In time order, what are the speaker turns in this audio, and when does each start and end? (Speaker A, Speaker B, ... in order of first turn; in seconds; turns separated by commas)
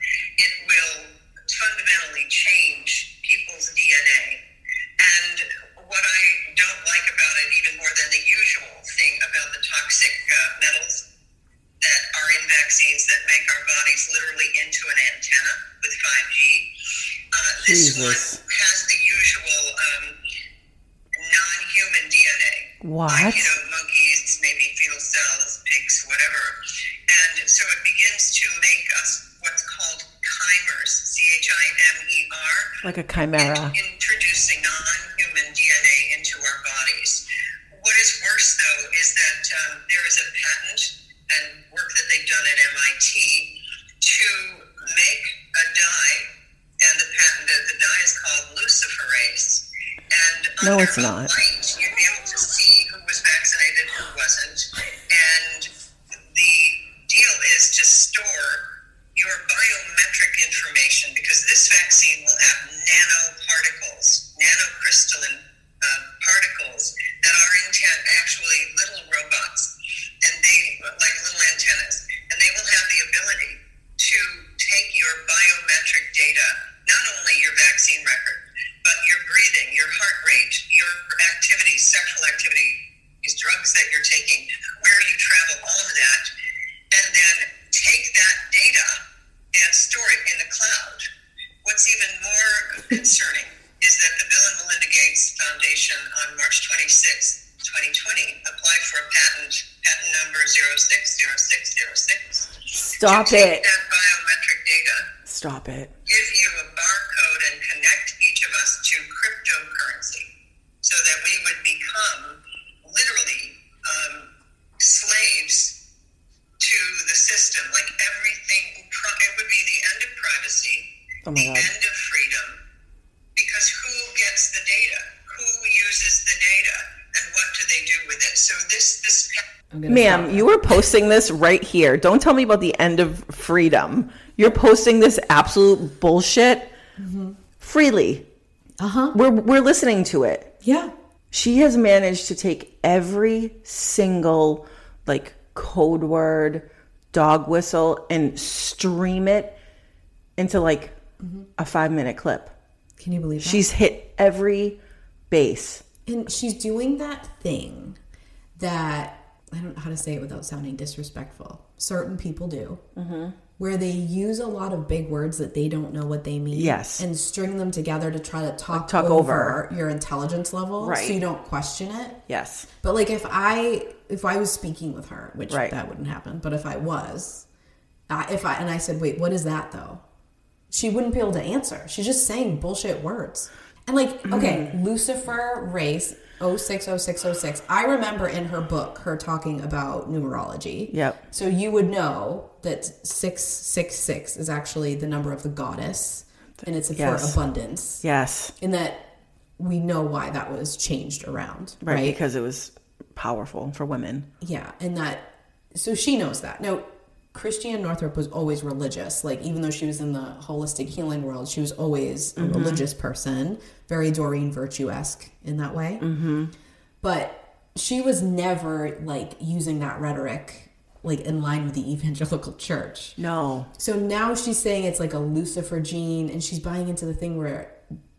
Speaker A: 0.4-4.4, Speaker A: 5.0-11.1, Speaker A: 11.8-16.7, Speaker A: 17.3-20.2, Speaker B: 17.6-18.4, Speaker A: 21.1-32.8, Speaker B: 22.8-23.5, Speaker B: 32.8-33.8, Speaker A: 33.4-55.7, Speaker B: 50.6-51.3, Speaker A: 56.3-86.3, Speaker A: 86.9-89.0, Speaker A: 89.5-91.1, Speaker A: 91.6-105.1, Speaker B: 102.7-103.7, Speaker B: 105.2-105.9, Speaker A: 106.1-110.3, Speaker A: 110.8-115.8, Speaker A: 116.6-122.6, Speaker B: 121.2-121.7, Speaker A: 123.4-129.4, Speaker C: 129.7-130.6, Speaker B: 129.9-136.7, Speaker C: 137.0-137.4, Speaker B: 137.6-138.3, Speaker C: 138.8-139.2, Speaker B: 139.1-140.5, Speaker C: 140.6-140.9, Speaker B: 141.3-149.6, Speaker B: 150.4-151.0, Speaker C: 151.2-151.5, Speaker B: 151.6-152.5, Speaker C: 153.0-153.7, Speaker B: 153.4-154.8, Speaker B: 155.3-155.8, Speaker C: 156.1-158.0, Speaker C: 158.6-162.8, Speaker B: 163.0-163.4, Speaker C: 163.6-172.2, Speaker B: 166.5-167.0, Speaker B: 168.7-169.6, Speaker B: 170.8-171.2, Speaker B: 172.3-172.7, Speaker C: 172.8-177.5, Speaker B: 175.5-175.8, Speaker C: 178.1-180.0, Speaker C: 180.7-198.0, Speaker B: 184.3-184.7, Speaker B: 190.9-191.2, Speaker B: 196.9-197.4, Speaker B: 198.0-198.5, Speaker C: 198.6-199.1, Speaker C: 199.6-202.2, Speaker B: 201.8-204.3, Speaker C: 204.4-216.1, Speaker B: 212.4-212.8, Speaker B: 216.0-216.5, Speaker C: 217.0-223.2, Speaker B: 223.2-223.7, Speaker C: 223.8-227.8